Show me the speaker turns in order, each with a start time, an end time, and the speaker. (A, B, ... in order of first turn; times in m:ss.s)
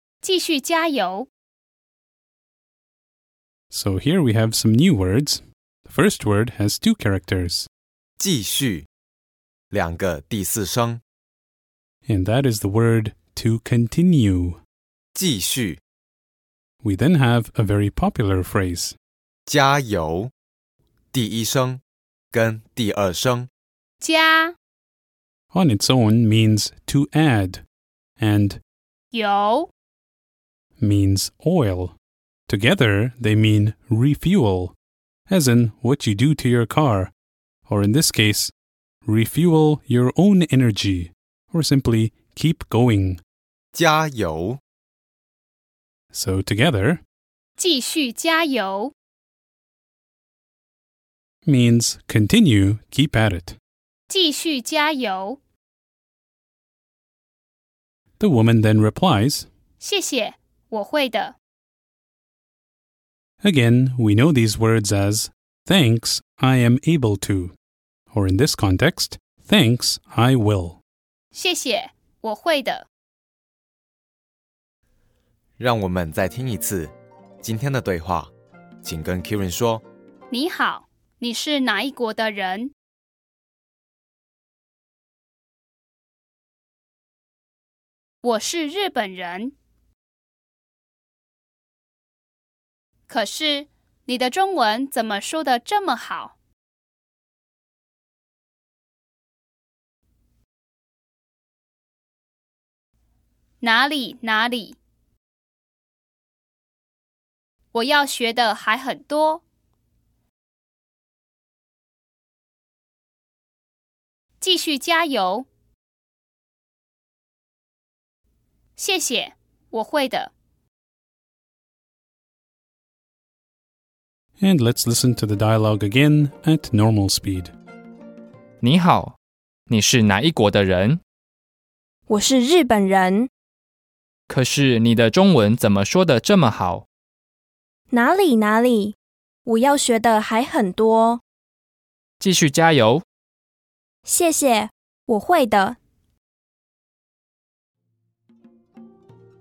0:00.2-0:01.3 A
0:03.7-0:07.7 B
0:08.2-0:08.9 C
0:09.7-0:11.0 C
0:12.1-0:14.6 B
0:15.2-0:15.8 C
0:16.8-0:18.9 B
0:19.5-0:20.3 C
0:21.1-0:23.5 C
0:24.0-0:24.6 A
0:25.5-0:27.6 B
0:28.2-0:28.6 B
0:29.1-0:29.7 A
0:30.8-0:31.9 B
0:32.5-0:34.7 B
0:35.3-0:37.1 B
0:37.7-0:38.5 B
0:39.1-0:43.2 B
0:43.7-0:44.6 C
0:46.2-0:47.0 B
0:47.6-0:48.9 A
0:51.5-0:53.5 B
0:54.1-0:55.4 A
0:58.2-0:59.5 B
0:59.8-1:01.4 A
1:03.4-1:07.5 B
1:08.2-1:10.8 B
1:11.3-1:12.9 A
1:15.6-1:18.3 C
1:18.8-1:19.8 C
1:20.3-1:22.7 A
1:28.2-1:29.5 A
1:33.1-1:36.4 A
1:43.6-1:44.8 A
1:47.7-1:49.4 A
1:54.4-1:55.5 A
1:58.8-2:00.3 A
2:04.4-2:07.5 B
2:08.6-2:09.2 D
2:09.7-2:11.0 D
2:12.1-2:13.3 E
2:14.3-2:16.9 D
2:17.9-2:21.2 E
2:22.2-2:23.0 D
2:24.1-2:25.8 E